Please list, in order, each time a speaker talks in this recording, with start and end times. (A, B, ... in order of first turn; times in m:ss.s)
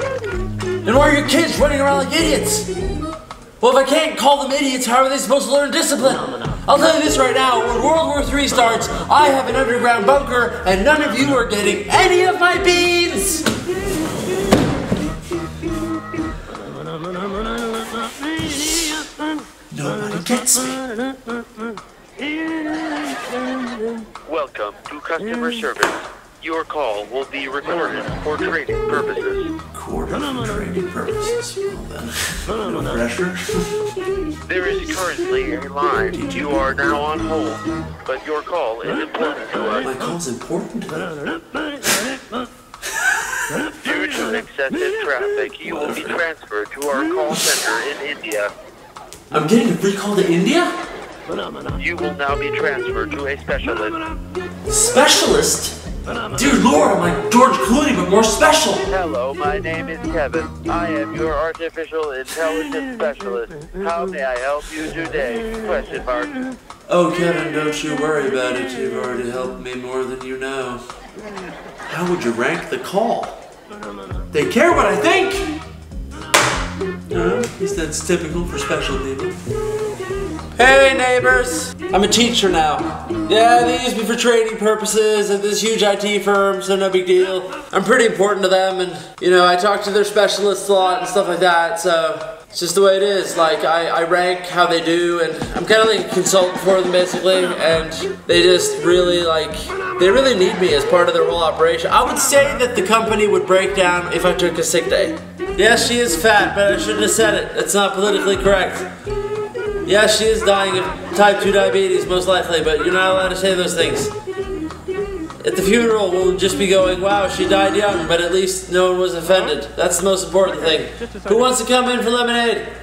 0:00.8-0:02.7 A
0:03.6-0:13.4 A
0:19.7-0:20.8 A
0:24.2-0:29.5 B
0:29.7-0:33.7 A
0:34.4-0:39.9 B
0:36.1-0:36.6 A
0:39.8-0:41.2 A
0:43.8-0:48.5 B
0:45.6-0:46.2 A
0:49.3-0:50.7 A
0:51.7-0:54.0 B
0:54.7-0:55.8 A
0:56.3-0:58.9 A
0:58.8-1:06.4 B
1:06.9-1:10.8 A
1:11.9-1:13.4 A
1:14.3-1:15.6 A
1:17.1-1:19.4 A
1:20.6-1:48.9 A
1:49.8-1:54.1 A
1:55.4-2:02.7 A